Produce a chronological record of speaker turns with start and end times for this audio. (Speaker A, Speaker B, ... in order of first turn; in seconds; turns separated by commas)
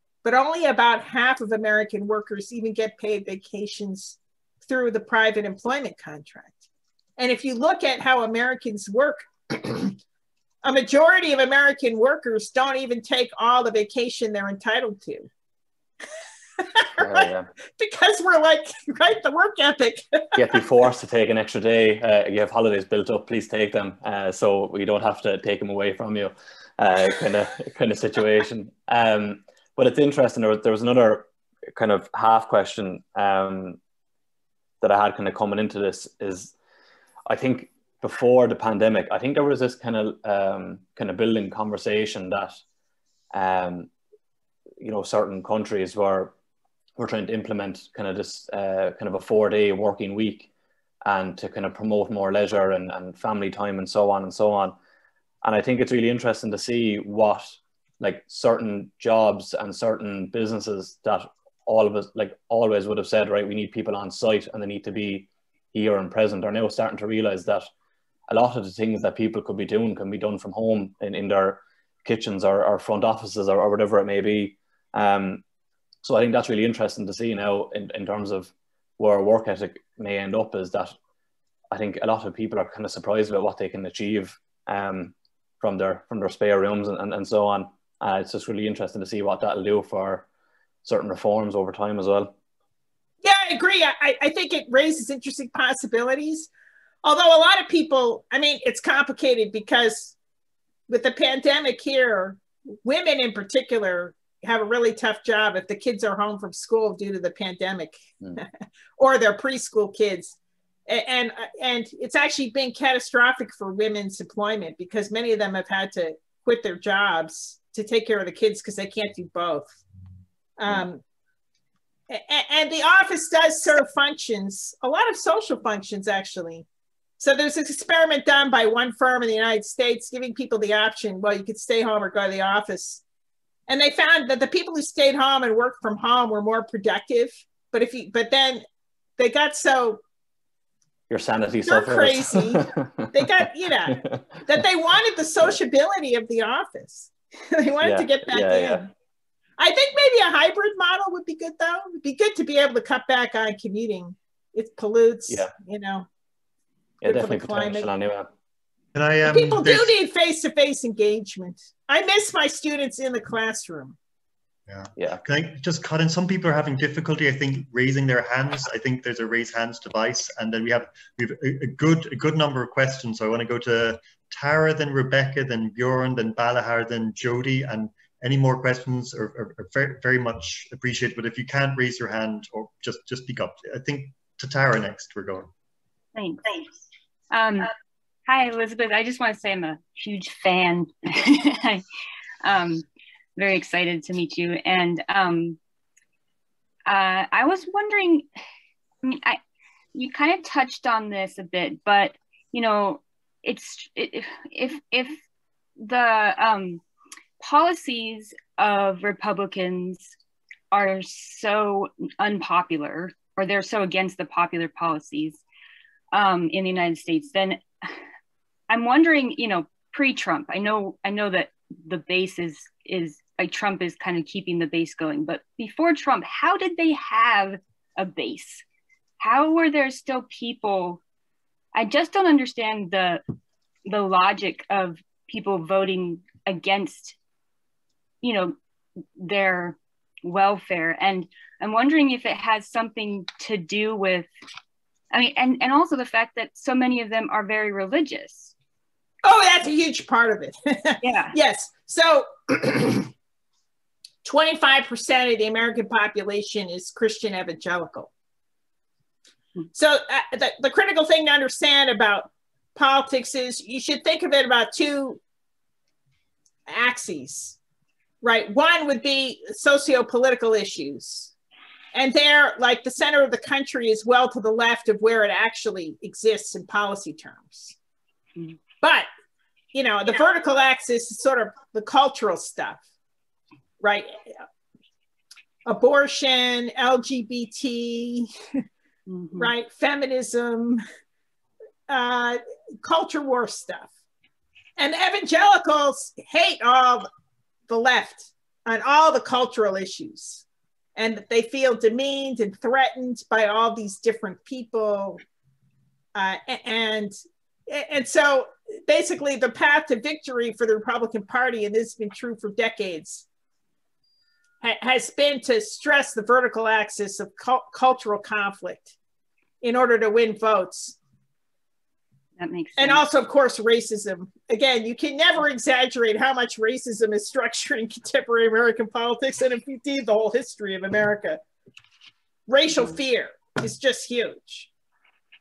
Speaker A: 0.2-6.6, Speaker A: 7.2-10.0, Speaker A: 10.6-15.3, Speaker A: 16.6-20.6, Speaker B: 17.0-17.5, Speaker B: 20.4-33.8, Speaker B: 34.8-36.5, Speaker B: 37.3-42.6, Speaker B: 43.3-43.9, Speaker B: 44.8-46.4, Speaker B: 47.0-50.5, Speaker B: 51.0-54.8, Speaker B: 55.4-67.7, Speaker B: 68.3-75.4, Speaker B: 76.0-81.0, Speaker B: 81.7-90.3, Speaker B: 90.8-92.3, Speaker A: 93.2-96.5, Speaker A: 97.0-100.2, Speaker A: 100.9-119.8, Speaker A: 120.6-121.0, Speaker A: 122.1-126.7, Speaker A: 127.2-133.0, Speaker A: 133.7-138.6, Speaker A: 139.2-140.0, Speaker B: 141.1-144.2, Speaker A: 141.7-148.9, Speaker B: 147.8-148.9, Speaker A: 149.6-156.1, Speaker B: 157.0-158.3, Speaker A: 157.0-157.9, Speaker C: 158.9-160.0, Speaker A: 159.2-164.0, Speaker C: 164.7-185.5, Speaker D: 186.2-186.6, Speaker D: 187.3-187.7, Speaker D: 188.3-191.8, Speaker D: 192.4-192.8, Speaker D: 193.4-195.6, Speaker D: 196.9-198.3, Speaker D: 199.0-199.4, Speaker D: 199.9-205.2, Speaker D: 205.8-206.8, Speaker D: 207.4-210.1, Speaker D: 210.7-215.4, Speaker D: 216.1-217.6, Speaker D: 218.7-228.6, Speaker D: 229.2-231.0, Speaker D: 231.7-233.2, Speaker D: 233.9-237.2, Speaker D: 238.2-238.6, Speaker D: 239.2-244.3, Speaker D: 245.1-248.5, Speaker A: 249.2-253.1, Speaker D: 251.0-251.3, Speaker A: 254.2-258.1, Speaker A: 259.7-265.2, Speaker A: 266.7-267.6, Speaker A: 268.2-271.3, Speaker A: 271.9-277.8, Speaker A: 278.8-279.1, Speaker A: 279.7-282.9, Speaker A: 283.8-284.4, Speaker A: 285.7-288.3, Speaker D: 289.1-289.5, Speaker A: 289.4-290.8, Speaker A: 291.9-293.9, Speaker A: 294.8-297.1, Speaker A: 297.7-300.4, Speaker A: 301.0-305.2, Speaker A: 306.1-307.1, Speaker A: 307.7-313.3, Speaker A: 314.6-318.9, Speaker A: 319.6-321.0, Speaker D: 322.4-323.0, Speaker A: 322.8-331.4, Speaker A: 332.5-334.7